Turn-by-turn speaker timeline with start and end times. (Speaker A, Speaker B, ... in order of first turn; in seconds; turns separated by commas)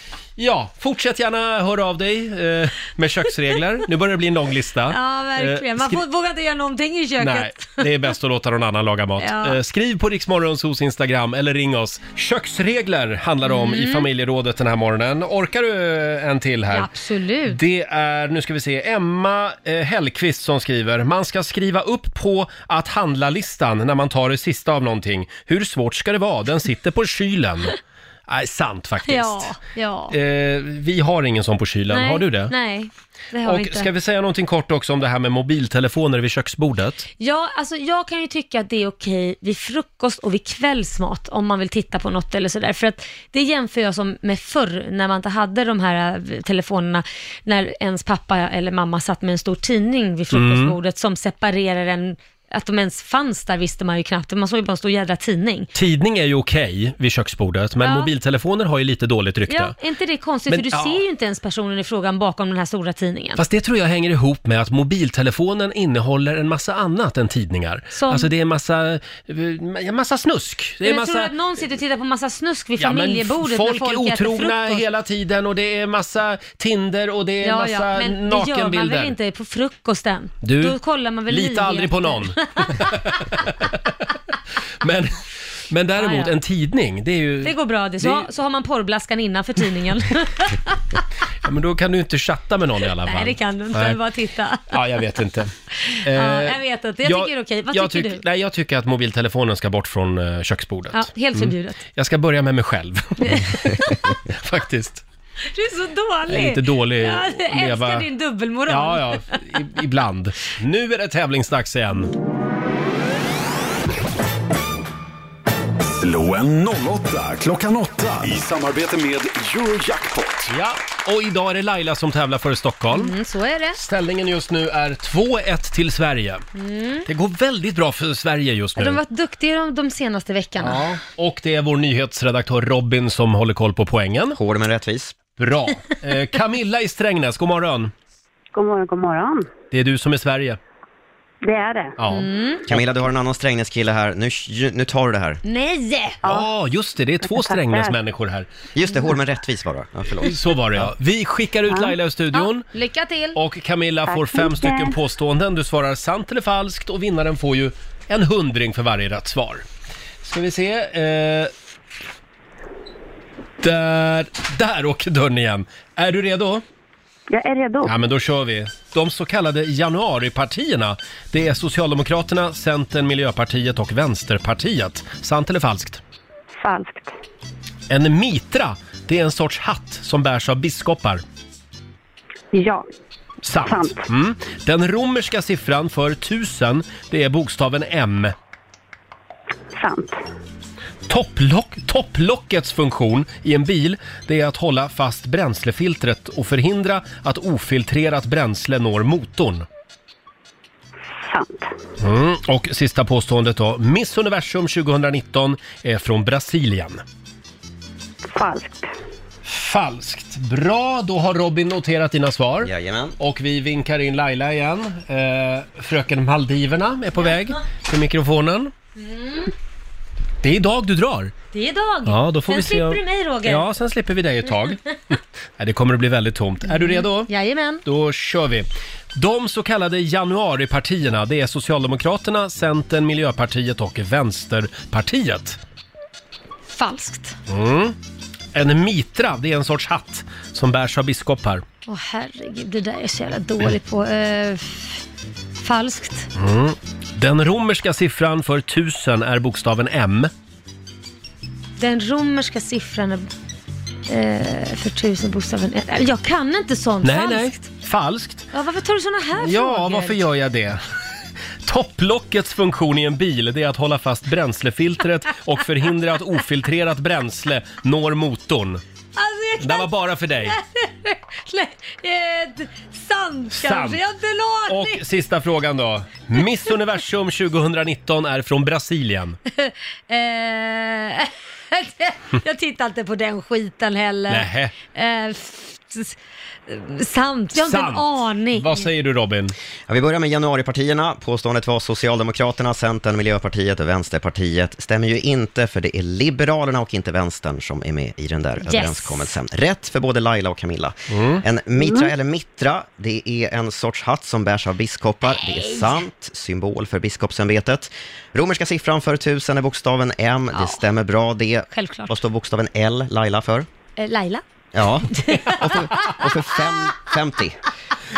Speaker A: 0.4-6.0, Speaker B: 4.9-7.8, Speaker A: 7.2-16.9, Speaker B: 9.2-9.6, Speaker B: 13.4-14.1, Speaker B: 16.7-17.6, Speaker A: 17.5-27.8, Speaker A: 28.3-29.6, Speaker B: 29.1-30.1, Speaker A: 30.1-32.5, Speaker B: 31.9-33.9, Speaker A: 33.5-37.1, Speaker B: 37.2-55.7, Speaker A: 50.3-50.7, Speaker A: 55.7-59.7, Speaker B: 57.8-58.1, Speaker B: 59.5-63.4, Speaker A: 60.5-61.0, Speaker A: 63.4-71.3, Speaker B: 67.9-68.3, Speaker B: 70.8-74.8, Speaker A: 72.8-79.1, Speaker B: 77.4-83.0, Speaker A: 80.4-80.8, Speaker A: 81.3-83.9, Speaker A: 84.8-88.3, Speaker B: 86.0-86.3, Speaker B: 87.4-90.8, Speaker A: 91.4-94.0, Speaker B: 93.0-94.6, Speaker A: 94.7-95.5, Speaker B: 95.9-98.2, Speaker A: 96.0-105.0, Speaker B: 100.9-101.8, Speaker B: 103.3-103.9, Speaker B: 105.5-109.4, Speaker A: 106.3-108.1, Speaker A: 108.7-112.1, Speaker C: 116.0-120.5, Speaker A: 120.5-123.1, Speaker B: 122.9-123.8, Speaker A: 123.7-126.4, Speaker B: 126.5-127.1, Speaker A: 127.0-129.0, Speaker B: 128.8-130.8, Speaker A: 130.6-134.4, Speaker D: 134.4-135.2, Speaker A: 135.4-137.9, Speaker E: 138.5-139.5, Speaker A: 139.7-140.6, Speaker E: 141.4-142.1, Speaker A: 142.0-142.2, Speaker B: 142.1-142.7, Speaker D: 142.7-145.4, Speaker B: 145.4-146.2, Speaker E: 146.2-146.5, Speaker A: 146.2-148.5, Speaker E: 147.2-148.0, Speaker D: 148.7-150.4, Speaker A: 150.2-152.7, Speaker E: 151.7-152.0, Speaker B: 152.3-153.4, Speaker A: 153.3-159.6, Speaker E: 154.1-155.0, Speaker A: 160.2-161.5, Speaker A: 163.6-166.6, Speaker E: 167.3-167.9, Speaker A: 167.8-176.0, Speaker E: 176.6-177.1, Speaker A: 177.9-181.2, Speaker E: 182.5-182.9, Speaker A: 183.4-188.3, Speaker E: 183.5-184.1, Speaker E: 189.7-190.2, Speaker A: 191.1-199.7, Speaker E: 201.2-201.7, Speaker A: 202.0-207.0, Speaker E: 208.3-208.9, Speaker A: 209.4-218.7, Speaker D: 212.6-213.1, Speaker B: 218.9-219.5, Speaker A: 220.4-221.3, Speaker B: 221.5-223.7, Speaker A: 222.1-227.3, Speaker B: 226.7-227.8, Speaker A: 227.8-235.6, Speaker B: 236.7-237.4, Speaker A: 237.5-237.9, Speaker A: 238.6-241.6, Speaker B: 241.9-245.0, Speaker B: 245.6-246.3, Speaker A: 246.3-250.3, Speaker B: 251.8-253.3, Speaker B: 254.1-257.7, Speaker A: 257.0-258.5, Speaker B: 258.5-260.2, Speaker A: 259.4-260.8, Speaker A: 261.6-268.8, Speaker B: 269.1-275.0, Speaker A: 269.6-270.6, Speaker A: 273.5-274.0, Speaker A: 274.7-279.4, Speaker B: 279.5-288.9, Speaker A: 284.3-284.7, Speaker A: 287.6-289.5, Speaker D: 289.9-313.7, Speaker B: 298.6-299.2, Speaker A: 301.1-301.4, Speaker E: 301.8-302.1, Speaker B: 305.4-305.9, Speaker B: 310.5-310.8, Speaker B: 311.7-312.1, Speaker B: 314.0-314.4, Speaker D: 314.7-317.6, Speaker B: 315.1-316.2